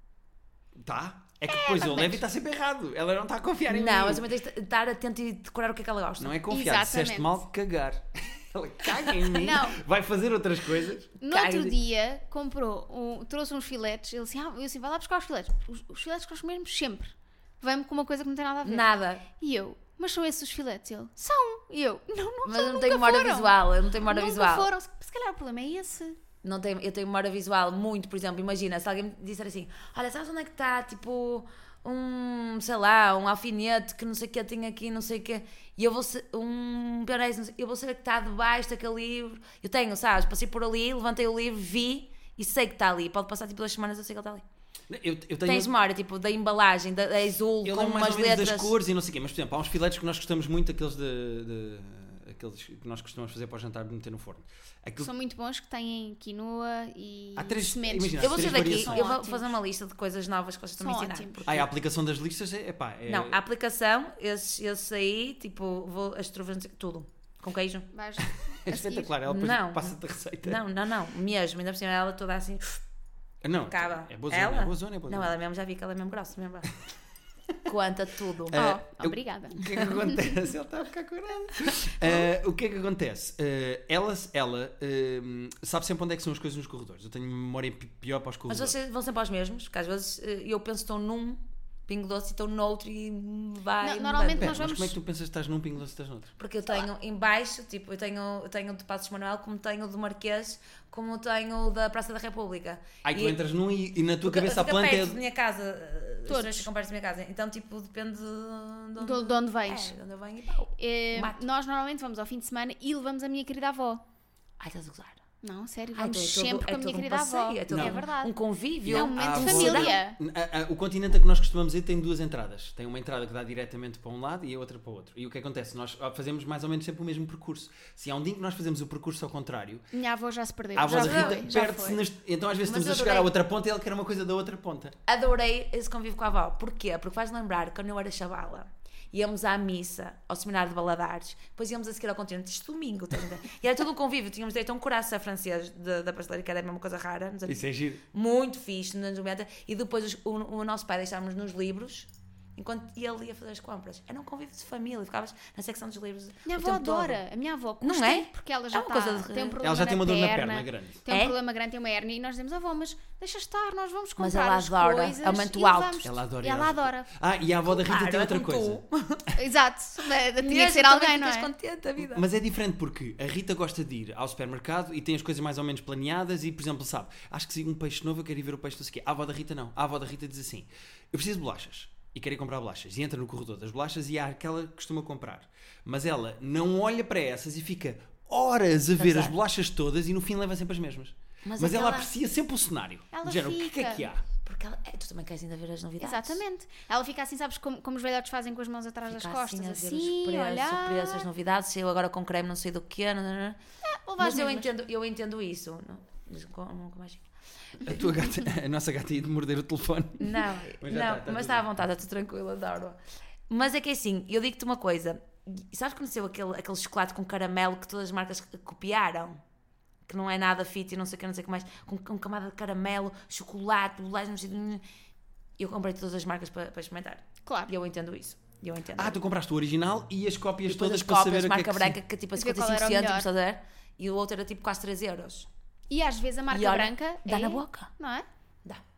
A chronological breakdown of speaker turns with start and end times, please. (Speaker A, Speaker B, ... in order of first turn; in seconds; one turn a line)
Speaker A: 0.8-4.3
Speaker B: 1.5-2.2
Speaker C: 3.7-6.4
Speaker A: 6.2-11.1
Speaker B: 6.5-7.3
Speaker B: 9.4-9.8
Speaker B: 11.2-26.2
Speaker C: 11.2-11.8
Speaker C: 18.6-19.2
Speaker C: 22.4-24.7
Speaker C: 26.4-44.4
Speaker A: 44.9-45.7
Speaker C: 45.5-48.7
Speaker A: 47.6-55.1
Speaker B: 55.0-59.6
Speaker A: 57.4-59.1
Speaker C: 58.2-61.7
Speaker B: 60.8-61.5
Speaker A: 61.5-63.4
Speaker C: 63.1-67.9
Speaker B: 67.9-69.1
Speaker A: 68.2-70.6
Speaker C: 69.3-72.8
Speaker A: 73.4-75.3
Speaker C: 73.7-76.7
Speaker C: 77.7-78.6
Speaker A: 78.5-88.8
Speaker B: 78.5-80.2
Speaker C: 88.5-94.6
Speaker B: 93.8-95.0
Speaker A: 94.4-96.3
Speaker C: 96.4-103.4
Speaker A: 103.0-105.2
Speaker C: 104.2-111.4
Speaker B: 106.3-106.7
Speaker B: 109.0-109.9
Speaker B: 110.8-114.0
Speaker C: 114.6-115.2
Speaker B: 115.4-118.3
Speaker C: 116.0-120.0
Speaker A: 117.7-118.0
Speaker A: 118.8-129.8
Speaker B: 118.9-120.2
Speaker B: 129.9-132.0
Speaker A: 130.8-134.9
Speaker C: 130.9-131.5
Speaker C: 132.7-133.3
Speaker C: 135.1-157.2
Speaker A: 147.5-148.0
Speaker B: 156.5-167.1
Speaker C: 157.8-159.6
Speaker A: 159.6-161.0
Speaker C: 161.1-161.4
Speaker C: 164.2-166.0
Speaker A: 166.0-168.8
Speaker C: 167.7-169.3
Speaker B: 169.3-171.5
Speaker C: 170.4-172.2
Speaker A: 172.0-194.2
Speaker C: 189.0-189.4
Speaker C: 191.4-192.1
Speaker B: 193.1-194.1
Speaker C: 194.4-196.4
Speaker B: 196.0-201.3
Speaker C: 199.1-203.6
Speaker B: 203.8-204.7
Speaker C: 204.2-207.2
Speaker A: 207.8-211.7
Speaker C: 210.2-213.0
Speaker C: 213.5-219.4
Speaker C: 220.1-224.8
Speaker C: 225.6-229.2
Speaker B: 227.5-227.7
Speaker A: 229.0-232.0
Speaker C: 230.7-235.5
Speaker B: 232.4-233.3
Speaker B: 235.9-238.3
Speaker C: 236.5-237.9